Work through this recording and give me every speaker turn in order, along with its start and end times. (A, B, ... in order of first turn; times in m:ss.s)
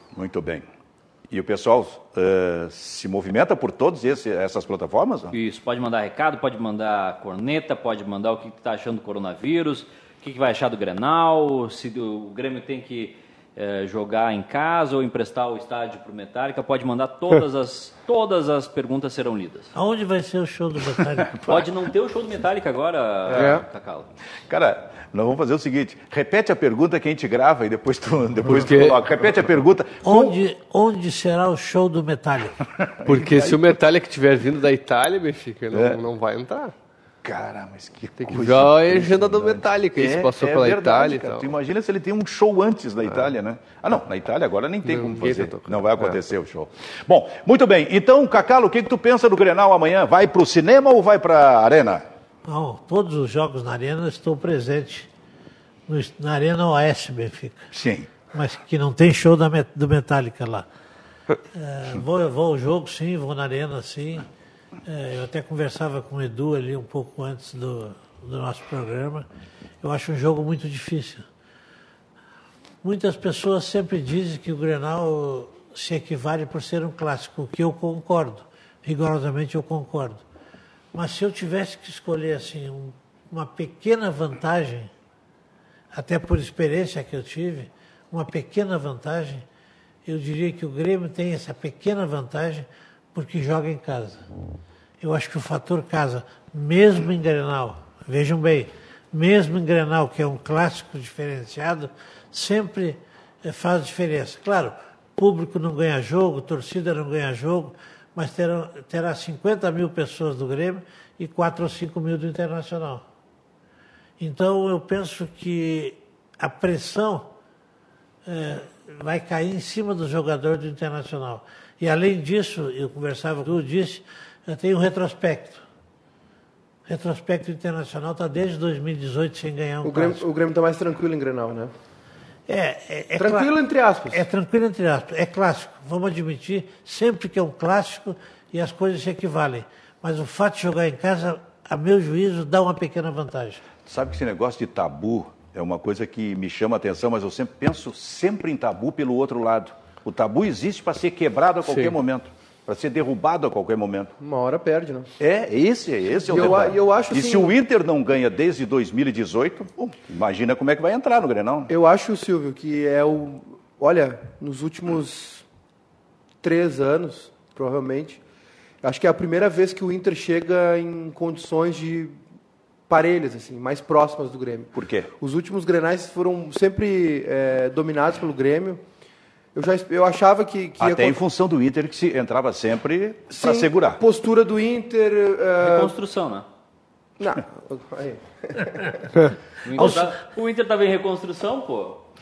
0:00.1-0:00.6 A
0:01.3-0:05.3 A
0:05.3-0:19.7 B
0:19.7-0:21.4 C
0:21.0-0:21.7 A
0:21.5-0:24.1 B
0:23.3-0:23.6 D
0:24.5-0:30.4 A
0:28.5-0:29.0 D
0:30.0-0:32.6 C
0:32.7-0:33.8 A
0:33.0-0:36.7 D
0:35.7-0:36.0 A
0:37.2-0:52.0 A
0:38.2-0:41.5 D
0:44.8-0:46.2 D
0:52.4-0:55.1 C
0:55.9-0:57.7 C
0:57.7-0:58.1 A
0:58.3-1:00.6 C
1:01.5-1:04.2 C
1:04.8-1:09.2 C
1:09.8-1:11.2 C
1:12.8-1:20.2 C
1:20.9-1:24.9 C
1:25.9-1:29.4 C
1:30.0-1:34.2 C
1:35.0-1:53.0 C
1:54.2-1:57.3 C
1:58.2-2:05.6 C
2:06.9-2:10.2 C
2:09.8-2:11.7 E
2:12.5-2:13.5 C
2:13.2-2:14.2 E
2:14.1-2:23.6 C
2:23.8-2:34.1 A
2:34.2-2:35.1 E
2:35.2-2:41.7 A
2:36.2-2:37.5 E
2:41.7-2:45.4 E
2:46.4-2:48.2 E
2:48.8-2:52.2 E
2:52.9-2:58.8 E
2:54.7-2:55.1 A
2:59.5-3:01.2 E
3:00.8-3:04.0 A
3:03.3-3:05.9 E
3:05.6-3:06.4 B
3:07.2-3:09.1 E
3:09.6-3:12.0 B